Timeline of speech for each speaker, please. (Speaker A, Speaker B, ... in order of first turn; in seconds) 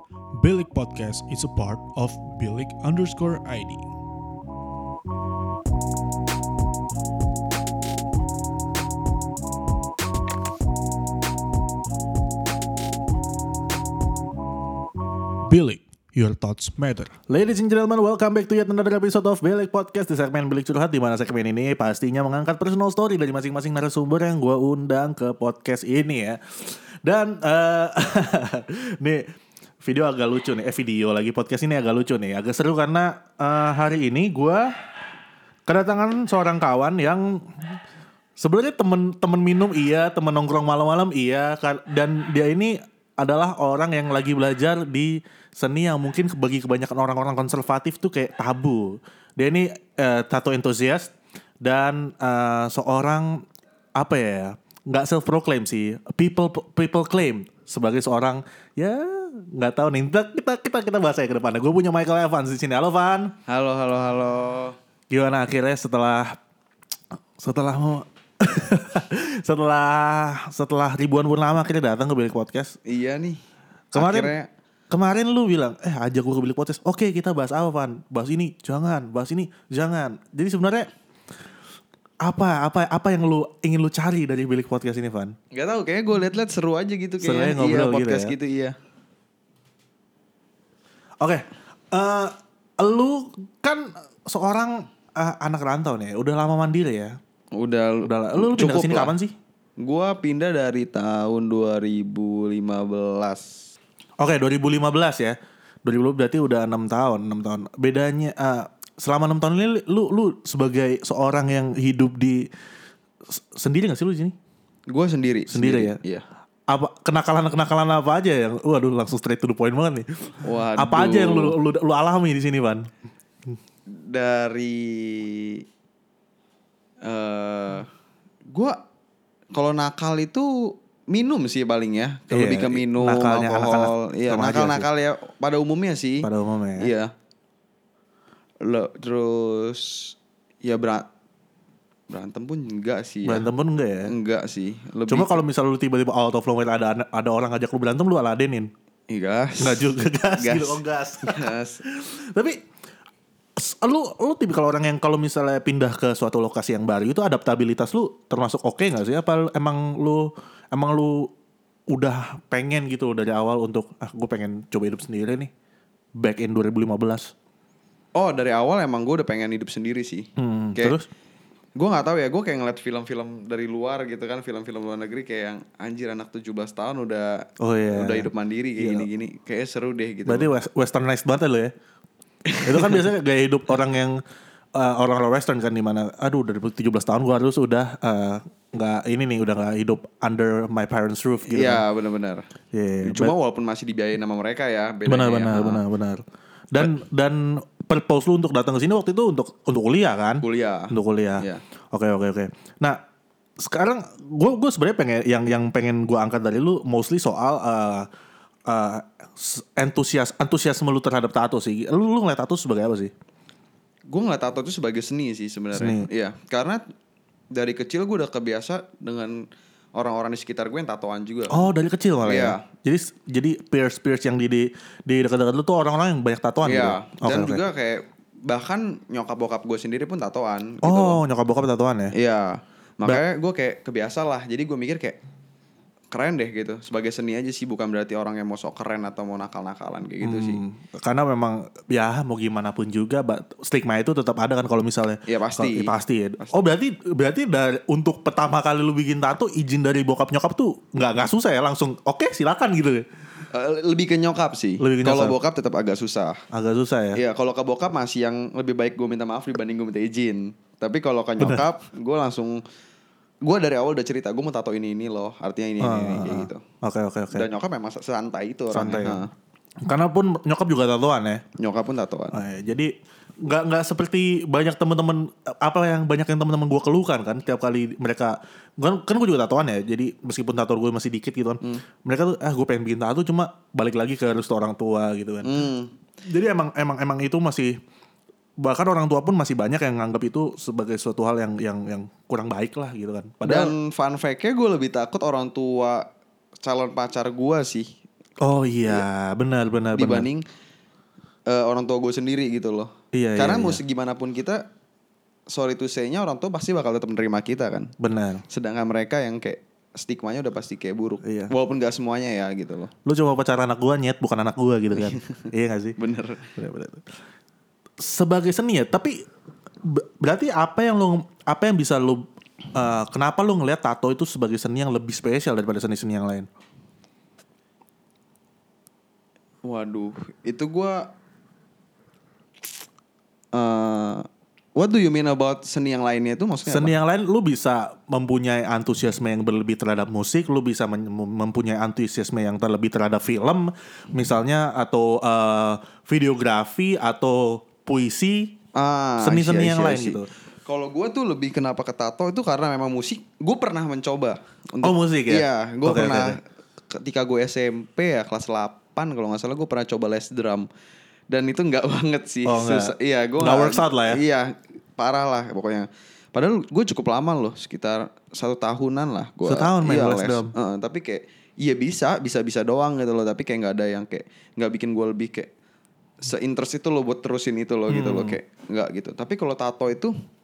Speaker A: 0.3-3.9, 15.4-17.2
Speaker B: 17.3-29.3, 29.8-34.7, 35.7-37.8, 38.4-53.4, 54.0-63.4, 65.1-66.4, 67.4-72.8, 73.9-74.3, 74.9-80.9, 82.2-85.3, 87.2-88.3, 91.2-97.2, 98.1-99.3, 104.2-112.5, 113.3-114.3, 115.5-116.0, 116.7-122.9, 132.3-134.9, 136.2-136.9, 143.2-144.1, 145.1-148.7, 149.6-152.6, 153.6-161.3, 161.9-165.5, 166.2-167.3, 170.4-171.1, 177.6-179.1, 180.3-181.7, 182.6-184.2, 184.8-191.8, 192.7-193.3, 195.1-203.0, 203.6-208.1, 208.7-213.1, 215.8-216.1, 221.5-227.6, 230.8-232.1, 240.2-253.1, 254.8-255.4, 256.5-257.2, 265.8-267.5, 268.7-269.2, 269.8-271.4, 272.3-285.5, 286.2-287.8, 288.6-293.7, 298.4-300.3, 303.1-303.8, 308.0-308.4, 311.2-311.5, 313.1-316.0, 316.6-317.1, 318.0-319.2, 319.8-326.5, 336.7-348.6, 349.2-350.3, 354.8-356.4, 362.4-364.2, 369.4-370.5, 377.9-378.4
Speaker C: 63.5-64.8, 72.9-73.4, 74.0-74.5, 85.5-88.8, 97.5-99.1, 99.8-103.6, 114.9-116.2, 120.4-121.6, 123.9-125.6, 127.0-127.9, 128.5-128.8, 129.5-137.1, 138.6-141.1, 142.1-143.5, 144.1-145.4, 149.1-151.8, 168.2-171.0, 171.8-180.5, 182.5-183.0, 191.5-192.5, 193.0-195.8, 200.4-201.6, 214.1-216.8, 217.5-221.7, 222.2-222.6, 226.6-231.2, 232.1-235.2, 236.1-240.6, 245.3-246.6, 253.5-256.4, 257.1-262.6, 263.4-266.6, 267.3-269.3, 271.6-272.4, 285.4-285.9, 293.4-296.0, 296.6-297.9, 299.9-300.4, 301.5-304.6, 305.5-307.9, 308.5-312.9, 314.9-316.5, 329.6-331.1, 333.5-336.9, 348.8-360.7, 361.3-375.5, 376.2-380.1